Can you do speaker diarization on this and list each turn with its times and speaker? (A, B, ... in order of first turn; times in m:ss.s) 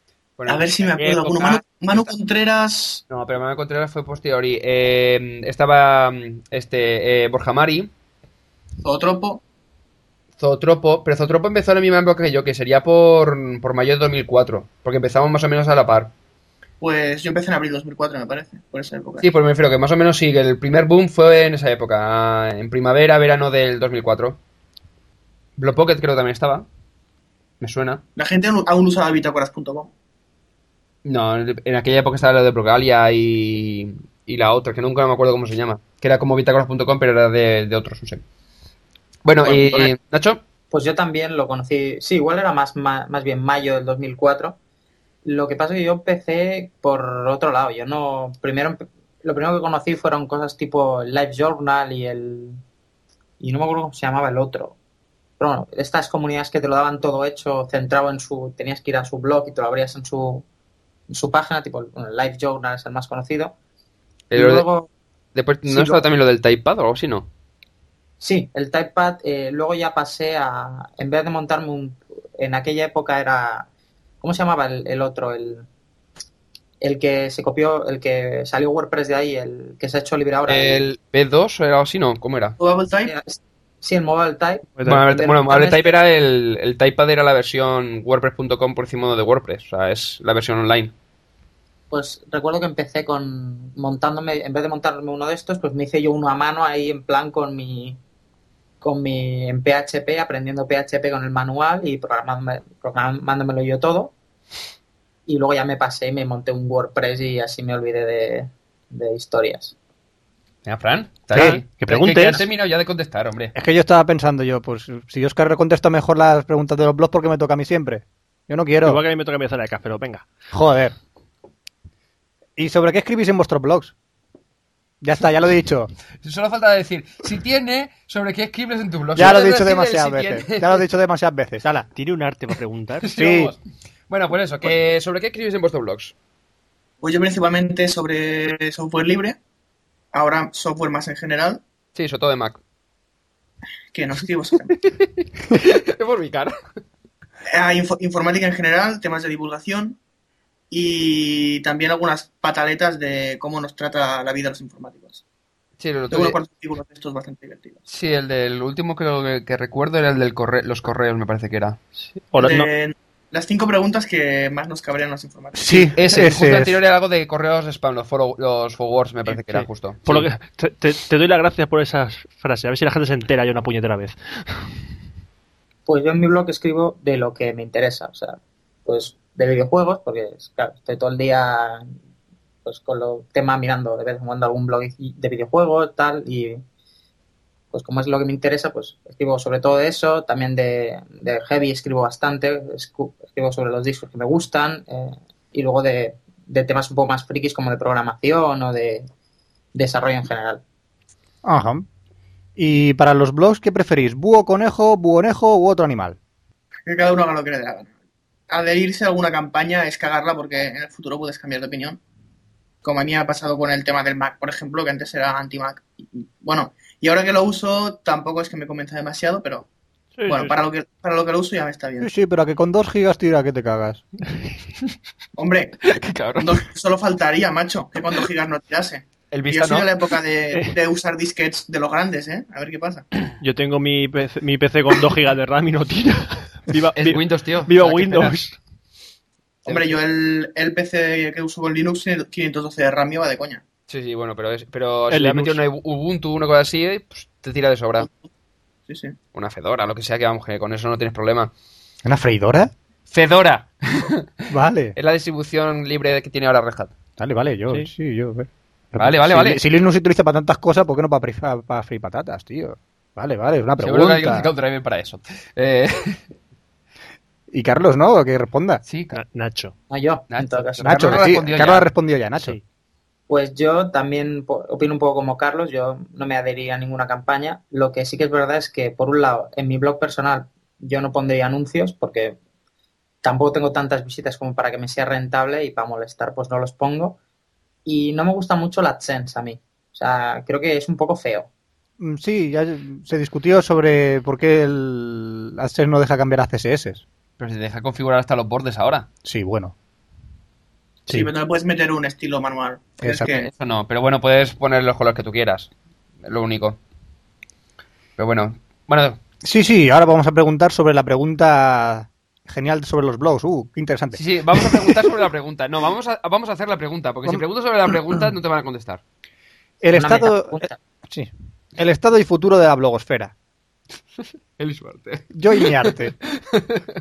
0:00.4-0:01.6 A
0:00.5-0:03.0 B
0:03.1-0:07.9 A
0:08.8-0:09.4 B
0:10.4-0:16.1 A
0:16.8-0:19.3 B
0:19.2-0:24.4 A
0:25.6-0:26.7 A
0:27.6-0:28.0 A
0:28.2-0:29.9 B
0:31.0-0:38.2 A
0:39.2-0:40.4 A
0:39.4-0:39.9 B
0:40.7-0:44.6 C
0:45.2-0:52.6 C
0:53.4-0:54.8 C
0:55.4-1:00.5 C
1:01.1-1:03.6 C
1:04.3-1:04.7 A
1:04.3-1:04.9 C
1:05.4-1:07.3 A
1:05.7-1:06.0 C
1:08.2-1:13.7 C
1:14.2-1:15.7 C
1:16.8-1:20.8 C
1:20.5-1:22.6 A
1:22.6-1:23.1 B
1:23.0-1:26.0 C
1:24.8-1:30.9 A
1:31.9-1:38.0 C
1:38.8-1:44.1 C
1:45.3-1:49.8 C
1:50.6-1:53.5 A
1:51.3-1:51.6 D
1:51.4-1:52.4 E
1:53.6-1:59.0 D
1:58.8-2:00.2 E
2:00.5-2:01.0 D
2:02.6-2:03.9 D
2:05.0-2:05.9 D
2:06.2-2:10.8 A
2:09.2-2:11.9 D
2:12.0-2:13.1 E
2:13.0-2:13.6 A
2:13.2-2:13.5 D
2:14.1-2:16.1 A
2:17.0-2:19.4 B
2:20.1-2:21.6 B
2:22.0-2:22.6 A
2:23.9-2:24.7 B
2:25.0-2:26.5 A
2:27.5-2:30.0 B
2:30.7-2:35.2 B
2:35.8-2:36.4 A
2:36.1-2:37.8 B
2:37.9-2:41.8 A
2:42.0-2:42.7 E
2:42.4-2:45.9 B
2:45.6-2:46.7 D
2:45.9-2:50.3 A
2:49.4-2:54.7 E
2:55.9-3:01.9 C
3:02.6-3:06.6 C
3:07.7-3:19.1 C
3:19.7-3:20.6 C
3:21.4-3:21.8 D
3:22.6-3:26.2 D
3:26.9-3:27.9 B
3:28.5-3:32.0 B
3:32.8-3:39.7 B
3:40.2-3:40.6 E
3:40.3-3:42.1 B
3:42.0-3:44.0 D
3:45.4-3:45.8 B
3:45.9-3:46.6 A
3:46.4-3:53.1 B
3:49.3-3:50.0 A
3:53.4-3:58.6 E
3:57.0-3:58.4 A
3:59.6-4:03.6 B
3:59.7-4:00.0 A
4:03.9-4:08.1 A
4:05.1-4:05.6 E
4:08.0-4:08.3 B
4:08.9-4:09.2 B
4:09.3-4:11.5 A
4:12.0-4:12.7 D
4:13.1-4:14.3 A
4:14.5-4:15.0 D
4:15.0-4:16.9 A
4:17.2-4:24.5 D
4:19.0-4:19.6 A
4:23.8-4:26.2 A
4:27.5-4:28.8 D
4:28.9-4:29.2 A
4:29.1-4:29.7 E
4:29.9-4:31.3 C
4:30.3-4:31.9 A
4:30.8-4:32.6 D
4:32.4-4:32.6 E
4:33.3-4:42.4 C
4:43.2-4:47.2 C
4:47.8-4:51.5 C
4:52.0-4:57.0 D
4:57.4-4:59.1 A
4:59.2-4:59.7 D
5:01.1-5:03.5 B
5:03.0-5:03.3 D
5:03.3-5:05.7 A
5:06.2-5:06.8 A
5:08.2-5:09.2 A
5:09.4-5:15.0 D
5:14.1-5:19.0 A
5:19.8-5:23.3 D
5:19.9-5:20.8 C
5:24.6-5:25.9 A
5:25.3-5:26.2 D
5:26.5-5:26.8 A